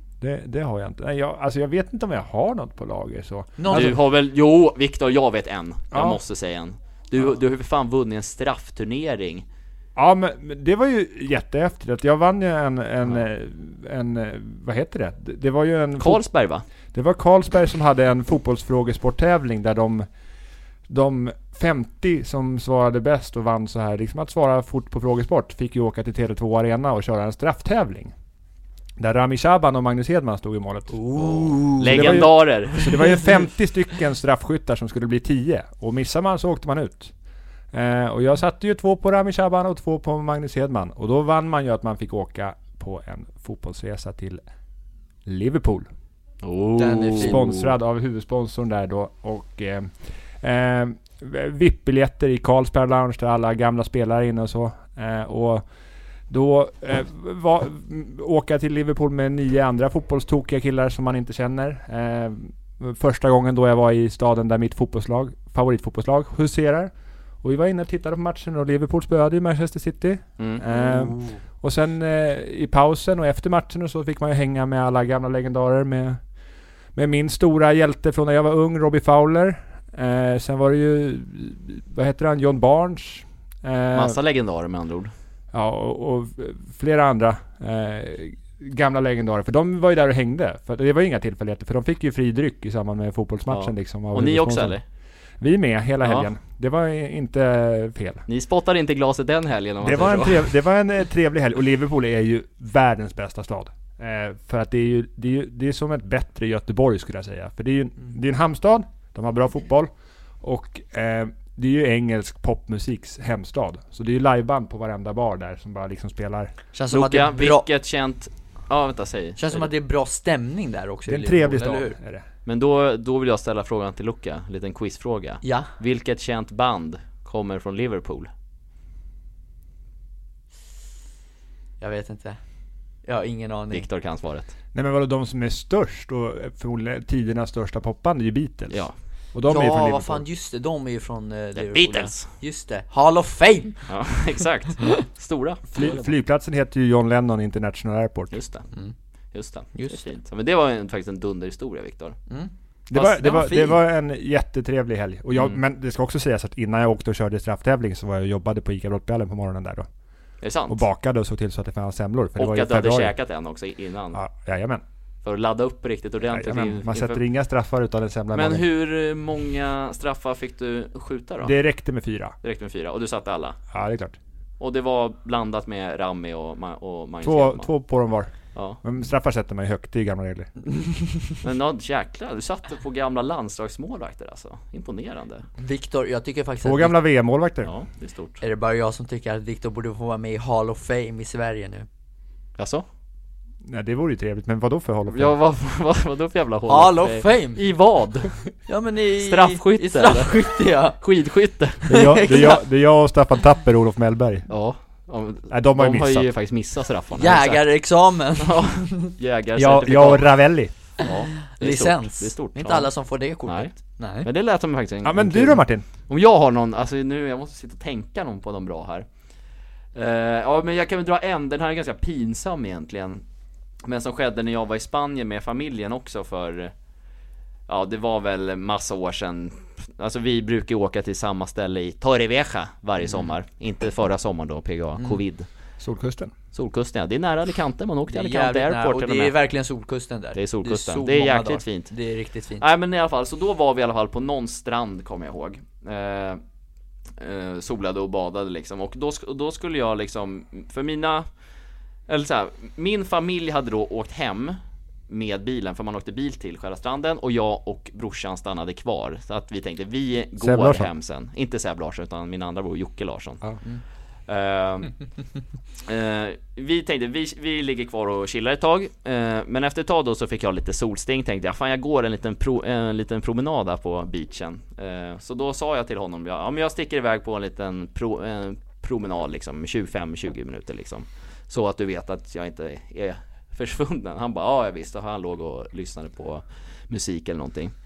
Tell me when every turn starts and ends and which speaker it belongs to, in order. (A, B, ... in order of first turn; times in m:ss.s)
0:00.2-0:04.0 A
0:03.6-0:04.0 B
0:03.7-0:09.4 C
0:05.9-0:06.2 A
0:10.0-0:16.2 A
0:16.0-0:16.6 C
0:16.9-0:20.0 A
0:20.9-0:28.1 A
0:29.0-0:37.1 A
0:30.9-0:33.0 B
0:31.8-0:33.0 C
0:37.7-0:44.4 A
0:45.2-0:45.9 A
0:46.4-0:47.7 C
0:46.8-0:47.4 B
0:47.2-0:55.6 A
0:56.3-1:06.9 A
1:07.4-1:16.2 A
1:16.9-1:24.2 A
1:23.9-1:25.1 C
1:25.5-1:34.8 A
1:33.5-1:34.8 C
1:35.4-1:38.2 A
1:36.0-1:36.3 C
1:38.3-1:40.5 C
1:39.8-1:49.9 A
1:50.4-1:56.5 A
1:56.7-1:57.7 B
1:56.9-1:59.7 C
1:59.4-2:02.0 B
2:01.1-2:02.2 A
2:02.4-2:08.3 C
2:05.4-2:05.7 B
2:11.8-2:12.4 B
2:13.0-2:13.8 B
2:13.7-2:14.5 C
2:14.7-2:20.2 A
2:19.5-2:23.8 B
2:21.6-2:22.3 C
2:23.9-2:26.1 C
2:25.7-2:28.4 A
2:28.3-2:28.7 C
2:29.3-2:32.2 C
2:29.7-2:30.0 B
2:32.3-2:33.8 B
2:32.9-2:39.9 A
2:40.4-2:40.8 C
2:40.7-2:43.1 A
2:42.4-2:44.2 C
2:44.1-2:44.8 A
2:45.2-2:47.2 C
2:46.3-2:48.6 A
2:48.3-2:51.5 C
2:51.4-2:52.3 A
2:52.4-2:53.6 C
2:53.7-2:54.2 A
2:54.6-2:57.7 C
2:57.2-3:00.5 A
3:00.8-3:01.1 B
3:01.4-3:05.4 C
3:05.6-3:07.0 B
3:06.6-3:07.7 A
3:07.6-3:08.4 C
3:08.4-3:11.9 B
3:12.6-3:12.8 C
3:13.6-3:15.3 A
3:15.1-3:18.4 C
3:16.7-3:17.6 B
3:18.7-3:21.0 B
3:19.2-3:20.4 C
3:21.0-3:22.2 C
3:21.8-3:22.6 B
3:21.9-3:24.5 A
3:24.5-3:27.7 C
3:25.5-3:26.3 A
3:27.1-3:29.1 B
3:28.4-3:30.3 C
3:29.6-3:30.7 A
3:31.0-3:32.9 C
3:31.0-3:34.3 B
3:33.4-3:39.0 C
3:35.0-3:35.8 A
3:39.9-3:43.2 C
3:43.8-3:46.7 C
3:47.7-3:55.5 C
3:55.8-3:56.3 A
3:56.5-3:59.3 C
3:58.1-4:02.6 B
4:00.3-4:01.9 C
4:02.6-4:06.4 C
4:07.2-4:11.3 C
4:12.1-4:14.6 C
4:15.1-4:23.5 C
4:20.4-4:20.9 A
4:24.3-4:25.0 C
4:25.8-4:47.7 C